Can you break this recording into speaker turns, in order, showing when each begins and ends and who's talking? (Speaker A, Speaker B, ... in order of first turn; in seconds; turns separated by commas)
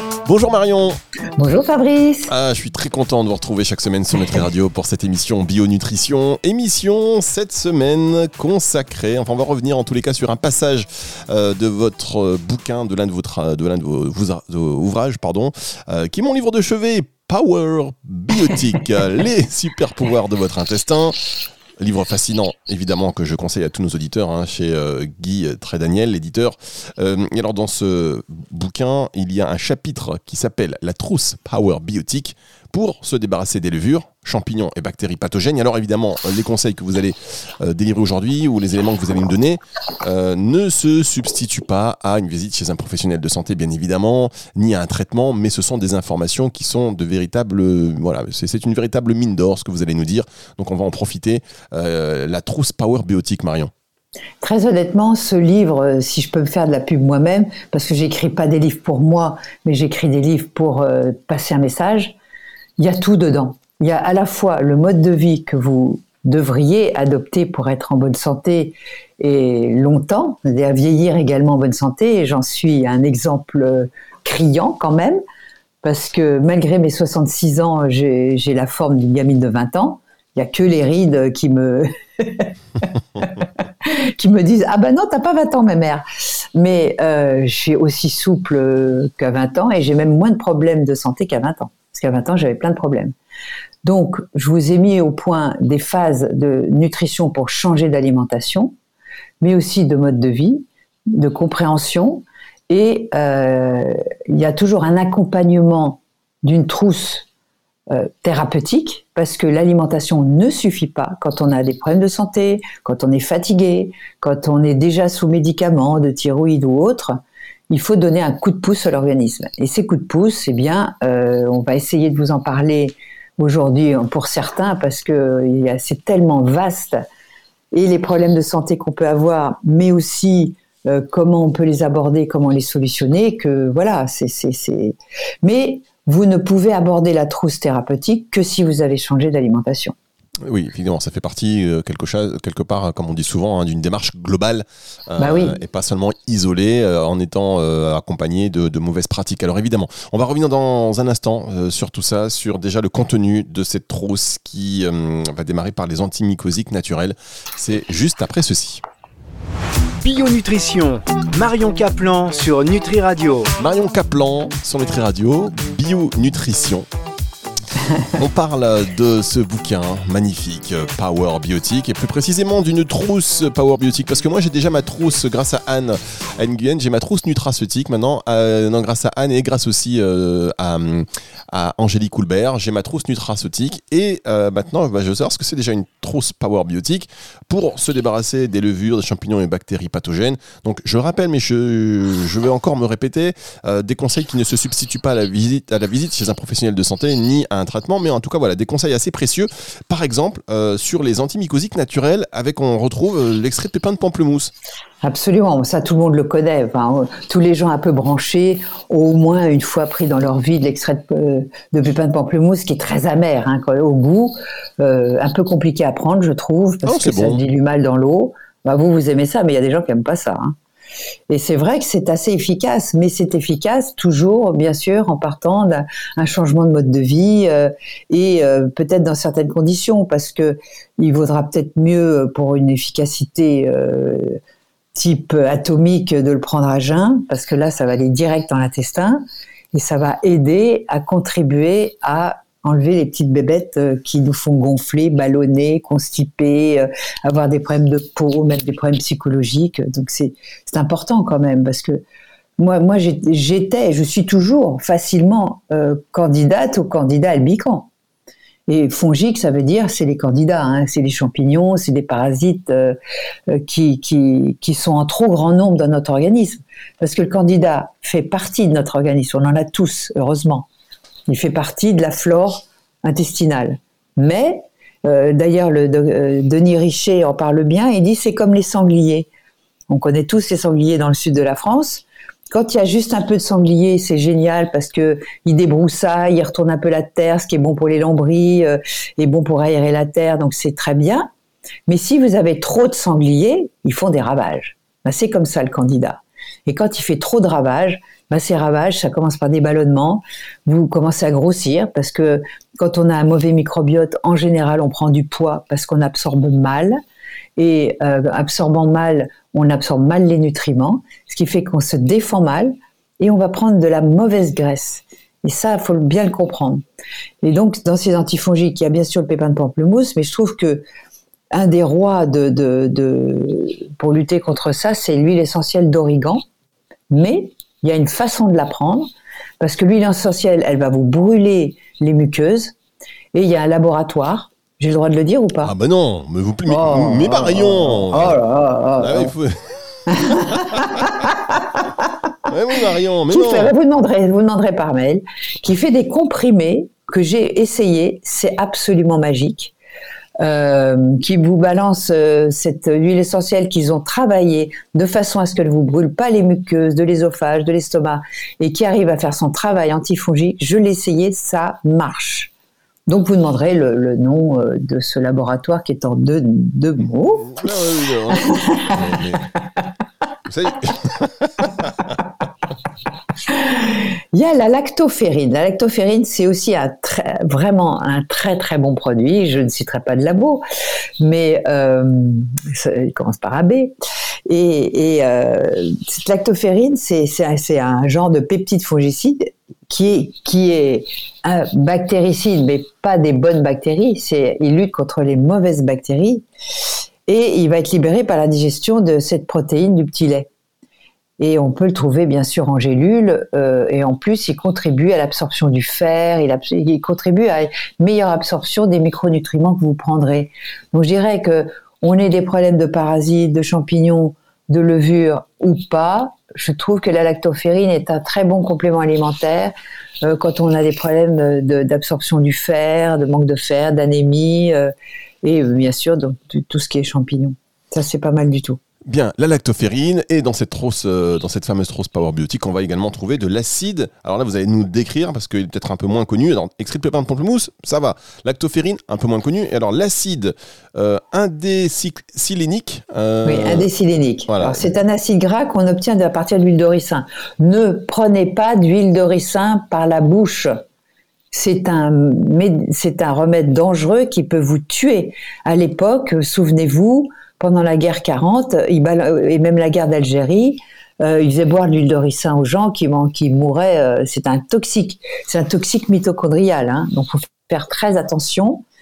Speaker A: 0.2-1.0, Speaker B: 1.4-2.3, Speaker A: 2.3-21.1, Speaker A: 21.8-53.7, Speaker B: 54.4-62.1, Speaker B: 62.8-75.2, Speaker B: 75.8-93.1, Speaker B: 93.8-98.7, Speaker B: 99.4-107.2, Speaker B: 107.9-117.2, Speaker B: 117.7-127.0, Speaker B: 127.7-139.9, Speaker A: 140.4-158.8, Speaker B: 145.2-145.6, Speaker C: 160.0-163.5, Speaker A: 163.6-166.9, Speaker A: 168.1-204.5, Speaker B: 205.0-220.6, Speaker A: 216.8-217.4, Speaker B: 221.3-234.4, Speaker B: 234.9-239.2, Speaker B: 239.7-252.0, Speaker B: 252.6-257.9, Speaker B: 258.7-263.0, Speaker B: 263.5-270.7, Speaker B: 271.3-279.3, Speaker B: 279.9-291.3, Speaker B: 291.9-307.0, Speaker B: 307.6-316.8, Speaker B: 317.4-320.8, Speaker B: 321.5-326.4, Speaker B: 327.1-332.7, Speaker B: 333.3-335.7, Speaker A: 335.6-338.4, Speaker B: 336.7-339.3, Speaker A: 339.0-341.2, Speaker B: 340.1-342.1, Speaker A: 342.5-343.7, Speaker B: 343.3-349.7, Speaker B: 350.4-362.5, Speaker B: 363.1-367.7, Speaker A: 367.4-369.5, Speaker B: 368.3-369.1, Speaker A: 370.5-372.2, Speaker B: 373.5-380.6, Speaker B: 381.2-383.9, Speaker B: 384.5-396.4, Speaker B: 397.3-400.5, Speaker B: 401.4-424.9, Speaker B: 425.4-428.8, Speaker A: 429.1-443.9, Speaker B: 443.4-450.7, Speaker A: 444.5-444.9, Speaker B: 451.5-468.8